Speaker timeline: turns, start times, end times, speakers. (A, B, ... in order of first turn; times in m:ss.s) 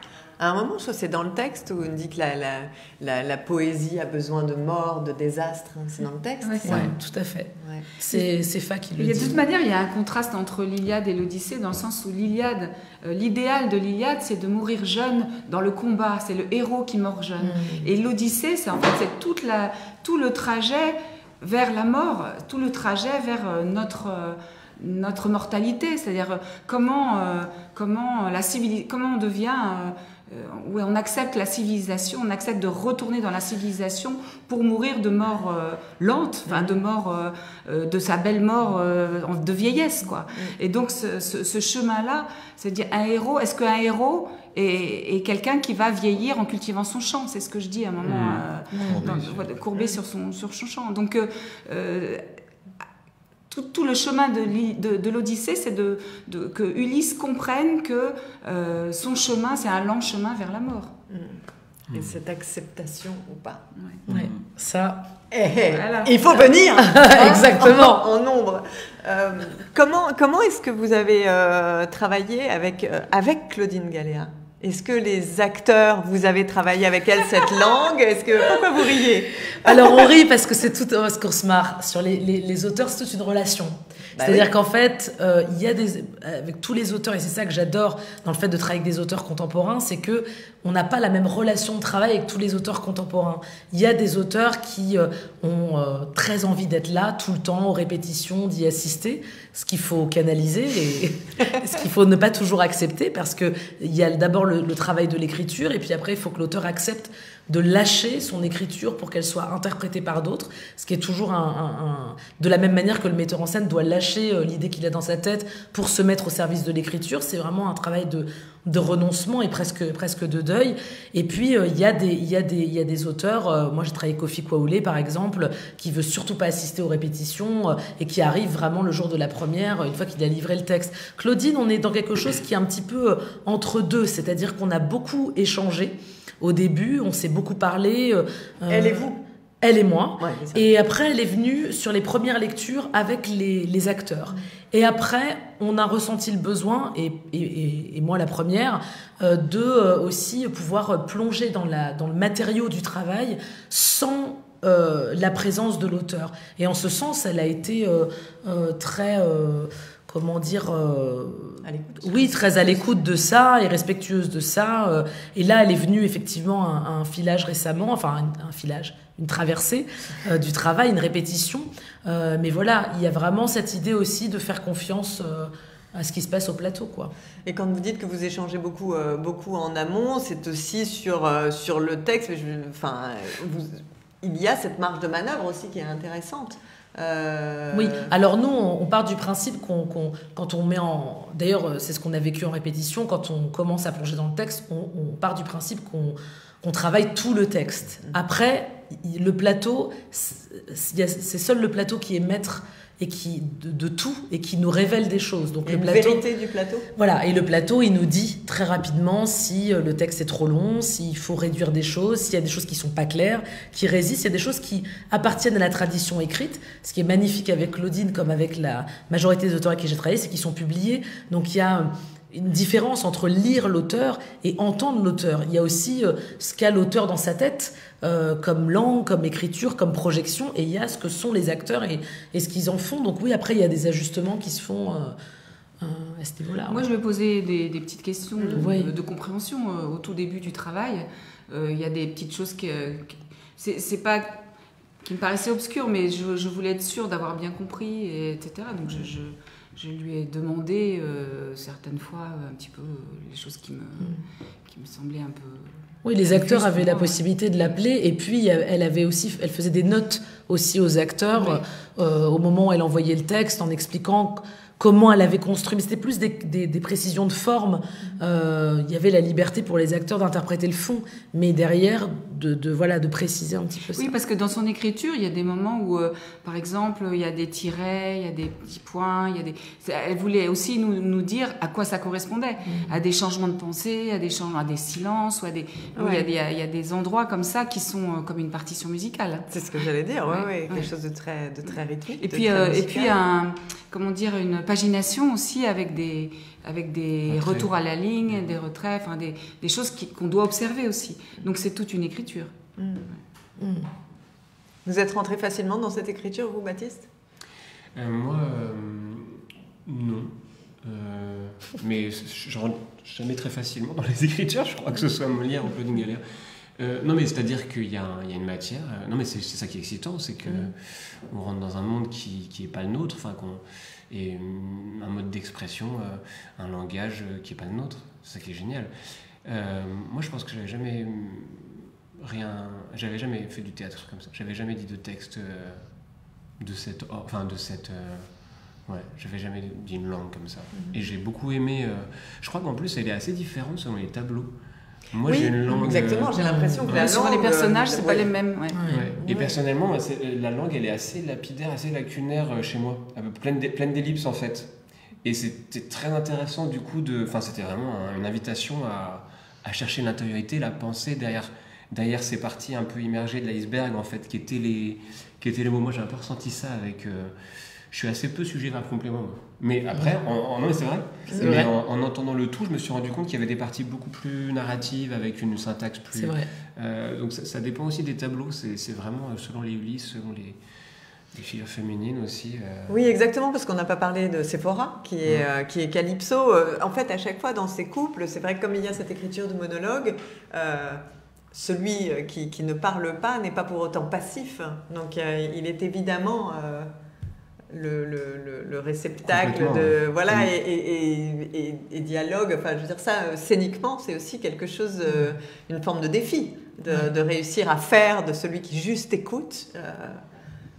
0:00.4-0:06.9 A
0:06.4-0:06.8 B
0:06.6-0:09.4 C
0:07.6-0:07.9 A
0:09.0-0:52.2 B
0:17.4-0:17.9 C
0:36.5-0:36.8 A
0:48.0-0:49.6 D
0:53.5-1:00.9 B
1:01.1-1:01.4 A
1:01.9-1:03.6 A
1:04.1-1:04.4 D
1:04.1-1:05.1 C
1:05.3-1:19.9 A
1:05.7-1:07.4 B
1:06.8-1:08.0 C
1:19.6-2:57.1 C
1:24.2-1:24.5 A
2:18.7-2:19.2 A
2:20.2-2:20.7 A
2:41.6-2:42.9 A
2:57.5-3:08.1 A
3:07.7-3:26.2 C
3:25.7-3:26.9 A
3:27.0-3:55.2 C
3:55.8-3:56.9 C
3:56.7-4:04.4 B
3:58.4-3:58.6 A
3:58.5-3:58.9 C
4:05.0-4:15.7 B
4:16.0-4:34.2 C
4:16.3-4:17.2 B
4:34.0-4:49.5 B
4:42.7-4:42.9 C
4:46.0-4:46.3 A
4:49.5-4:53.2 A
4:50.3-4:50.9 B
4:52.2-5:02.5 B
4:57.3-4:57.7 D
4:58.3-4:58.6 D
5:02.8-5:03.1 A
5:03.6-5:03.9 C
5:04.9-5:07.1 A
5:08.0-5:16.2 D
5:16.8-5:28.9 D
5:29.4-5:44.5 D
5:45.1-5:47.1 D
5:45.2-5:48.3 A
5:46.4-5:46.8 C
5:46.9-5:48.8 B
5:48.7-5:49.0 C
5:48.9-5:54.7 D
5:49.2-5:49.6 A
5:55.2-6:07.4 D
6:07.9-6:20.6 D
6:11.3-6:11.6 A
6:11.4-6:11.7 C
6:16.1-6:16.5 C
6:21.3-6:23.1 D
6:22.9-6:36.9 A
6:37.7-6:50.2 A
6:39.3-6:40.5 D